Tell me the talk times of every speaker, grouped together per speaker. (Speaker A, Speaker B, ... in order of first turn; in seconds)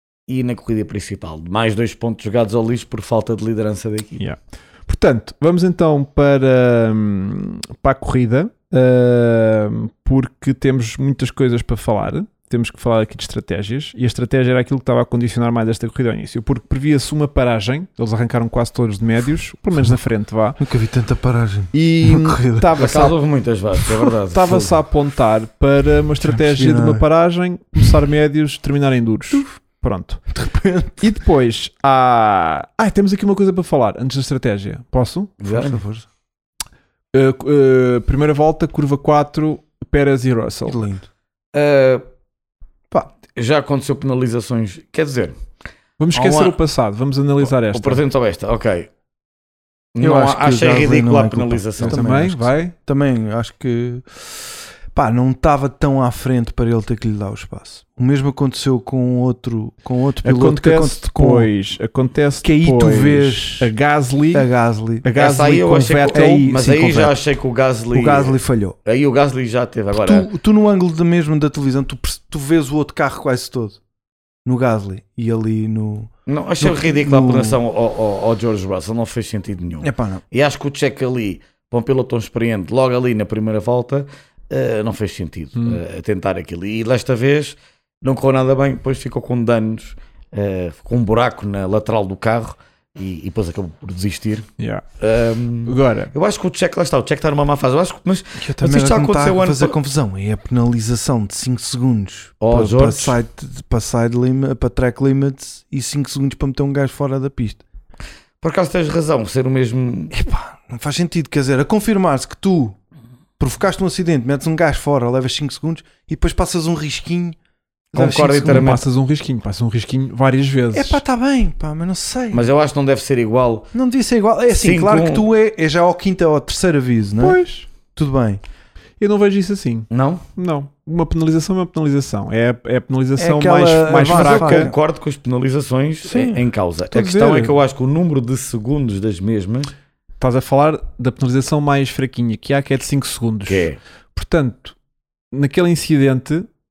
Speaker A: 0.3-4.2, 22.8-24.7, 35.4-35.8, 41.5-42.0, 43.3-45.3, 46.2-46.5, 47.5-48.9, 49.9-52.0, 65.2-70.3, 76.3-94.5, 95.0-99.8, 102.4-103.2, 108.4-110.1, 117.9-118.8, 122.3-123.7, 124.5-125.2, 129.9-130.2, 134.1-139.7, 143.4-143.8
Speaker B: 4.2-20.6, 21.7-23.2, 24.3-30.3, 31.0-35.3, 37.1-40.8, 46.0-48.0, 51.8-52.7, 60.2-64.5, 65.0-66.5, 94.6-94.8, 95.7-96.1, 118.4-121.0, 127.2-127.7, 129.0-134.7, 136.9-137.5, 140.2-144.8, 145.3-146.5
Speaker C: 20.6-22.7, 26.2-27.0, 29.3-29.6, 30.3-31.1, 35.5-36.1, 40.7-41.0, 50.0-61.5, 62.4-63.7, 64.3-65.1, 66.1-67.2, 67.9-68.8, 69.9-73.8, 74.4-77.6, 79.8-80.2, 98.4-107.6, 110.1-112.8, 113.4-117.4, 117.9-118.7, 120.7-122.5, 123.7-127.4, 127.9-128.4, 133.2-134.7, 136.0-136.4